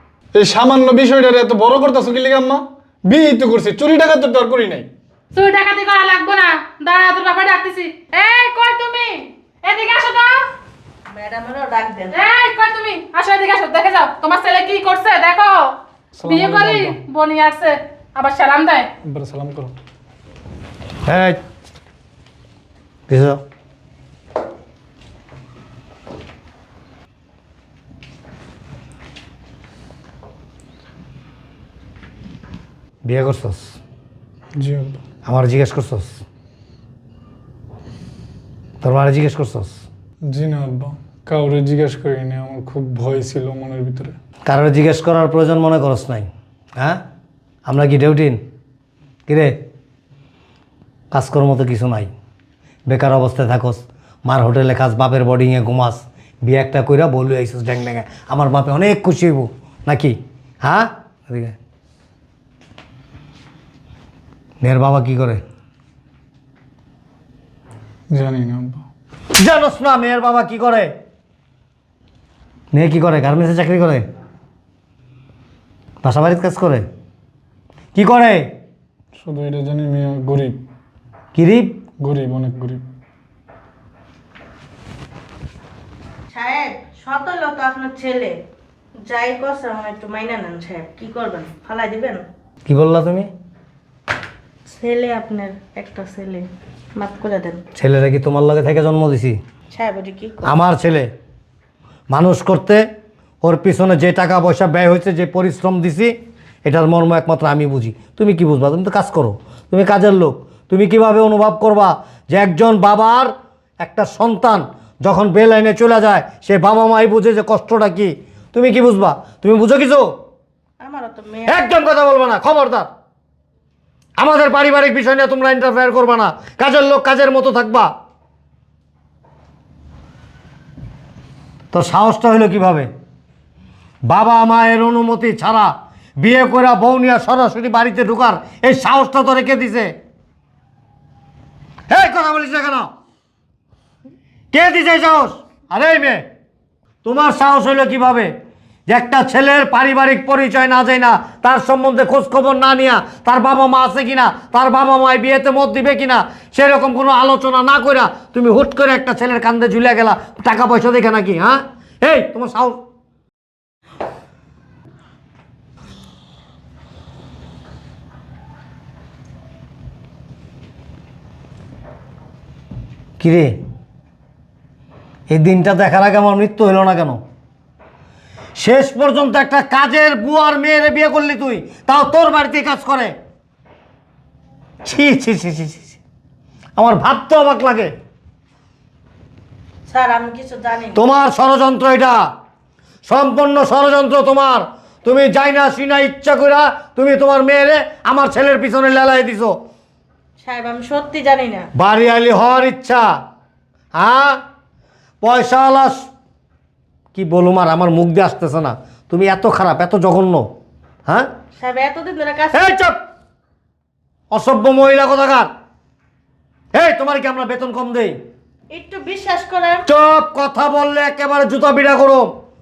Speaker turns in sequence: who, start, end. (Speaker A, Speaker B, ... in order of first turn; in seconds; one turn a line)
Speaker A: 0.3-4.9
Speaker B: 5.3-10.4
Speaker C: 11.1-12.2
Speaker B: 12.1-18.9
Speaker A: 16.2-17.0
Speaker A: 19.0-19.8
Speaker D: 21.1-21.4
Speaker D: 23.1-23.4
Speaker D: 33.0-33.8
Speaker A: 34.6-35.0
Speaker D: 35.2-36.1
Speaker D: 38.8-39.8
Speaker A: 40.2-44.2
Speaker D: 44.5-47.0
Speaker D: 47.7-48.4
Speaker D: 49.3-49.6
Speaker D: 51.1-52.1
Speaker D: 52.9-61.6
Speaker D: 64.6-65.4
Speaker A: 68.1-68.8
Speaker D: 69.4-70.9
Speaker D: 72.7-74.1
Speaker D: 76.0-76.8
Speaker D: 77.9-78.5
Speaker A: 79.2-80.6
Speaker D: 81.3-81.7
Speaker A: 82.0-82.8
Speaker C: 86.3-88.3
Speaker C: 89.1-92.2
Speaker D: 92.7-93.3
Speaker C: 94.7-96.5
Speaker C: 97.0-97.6
Speaker D: 97.8-99.4
Speaker C: 99.7-100.5
Speaker D: 100.4-101.1
Speaker D: 102.1-102.8
Speaker D: 103.4-106.1
Speaker D: 106.7-120.1
Speaker C: 120.8-121.6
Speaker D: 121.5-122.9
Speaker D: 124.2-127.9
Speaker D: 131.7-132.9
Speaker D: 134.1-139.9
Speaker D: 141.9-142.9
Speaker D: 144.5-146.2
Speaker D: 147.0-148.3
Speaker D: 148.9-162.8
Speaker D: 173.2-173.5
Speaker D: 175.3-177.2
Speaker D: 178.6-183.1
Speaker D: 184.8-186.0
Speaker D: 186.8-187.9
Speaker C: 189.9-191.0
Speaker D: 190.9-192.2
Speaker D: 193.1-199.5
Speaker C: 200.4-201.7
Speaker D: 201.8-203.1
Speaker D: 204.0-204.4
Speaker D: 205.2-206.1
Speaker D: 207.1-210.4
Speaker C: 211.6-212.6
Speaker D: 212.5-213.0
Speaker D: 214.3-215.5
Speaker D: 216.7-218.2
Speaker C: 218.7-219.8
Speaker D: 219.8-222.3